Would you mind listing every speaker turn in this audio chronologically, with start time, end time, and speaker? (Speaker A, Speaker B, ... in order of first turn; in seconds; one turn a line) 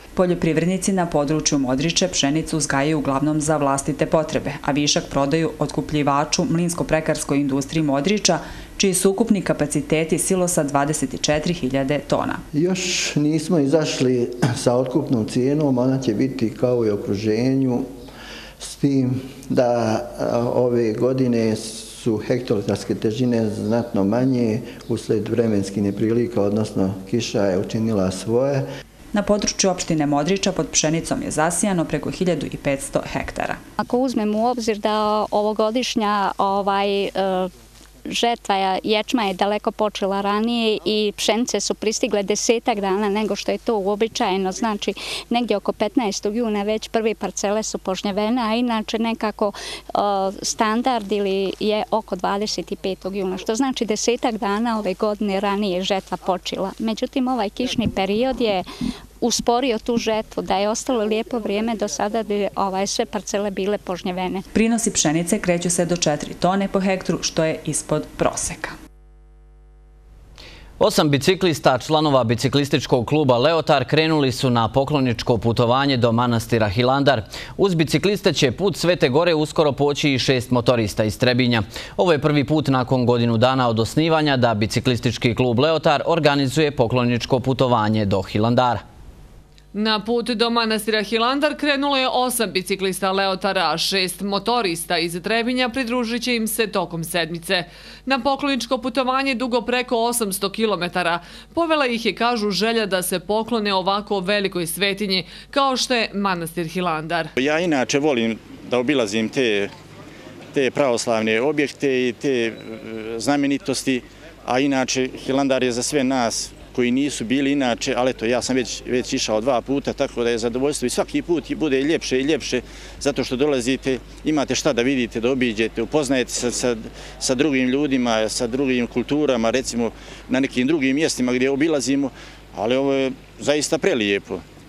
Speaker A: 0.2-12.4
Speaker B: 12.5-17.9
Speaker B: 18.6-28.6
Speaker A: 29.1-33.6
Speaker C: 33.8-37.5
Speaker C: 38.1-58.7
Speaker C: 59.2-64.5
Speaker A: 64.5-68.8
Speaker D: 70.8-88.8
Speaker E: 89.7-107.3
Speaker F: 107.4-109.7
Speaker F: 110.5-134.4